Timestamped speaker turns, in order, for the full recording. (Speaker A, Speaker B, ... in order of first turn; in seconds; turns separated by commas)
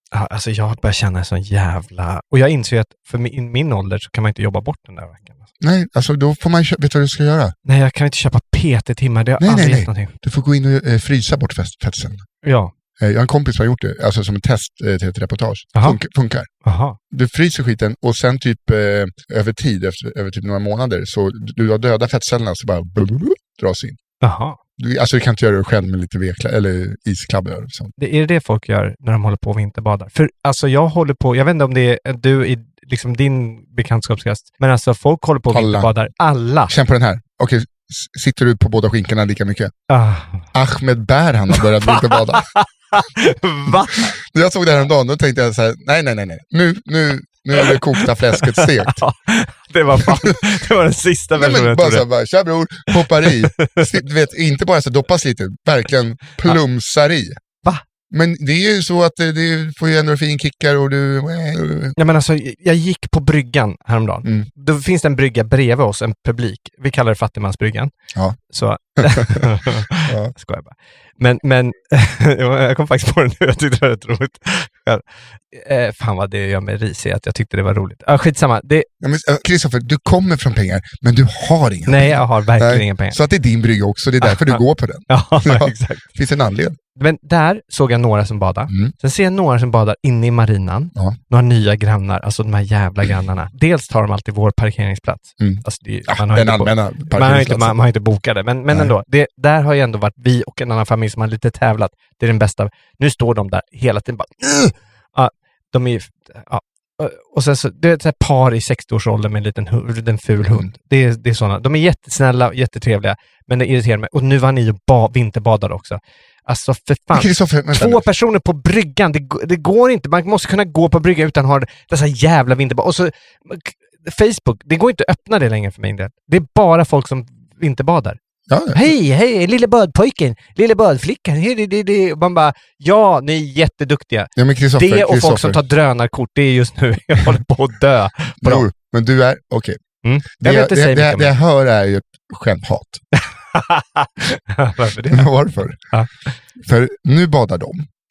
Speaker A: 0.1-5.5, Speaker B: 5.6-7.5, Speaker A: 7.7-10.1, Speaker B: 9.4-12.2, Speaker A: 12.4-12.7, Speaker B: 13.0-16.5, Speaker A: 16.6-17.0, Speaker B: 17.1-24.0, Speaker A: 24.2-24.6, Speaker B: 24.8-27.9, Speaker A: 28.0-36.7, Speaker B: 35.5-35.9, Speaker B: 36.7-39.7, Speaker A: 39.9-40.5, Speaker B: 40.5-42.5, Speaker A: 41.6-44.1, Speaker B: 43.7-49.0, Speaker A: 47.5-52.1, Speaker B: 50.0-50.3, Speaker B: 51.4-57.4, Speaker A: 53.0-53.9, Speaker B: 58.1-62.0, Speaker A: 62.0-78.9, Speaker B: 64.2-64.5, Speaker B: 69.0-70.3, Speaker B: 79.0-86.8, Speaker A: 81.9-83.2, Speaker A: 84.2-86.0, Speaker A: 87.0-128.2, Speaker B: 95.4-97.8, Speaker B: 117.1-118.0, Speaker B: 128.5-128.9, Speaker A: 128.7-138.7, Speaker B: 134.3-135.6, Speaker B: 138.4-139.8, Speaker A: 140.0-141.3, Speaker B: 140.4-143.0, Speaker A: 143.1-145.3, Speaker B: 145.1-145.8, Speaker B: 146.6-147.8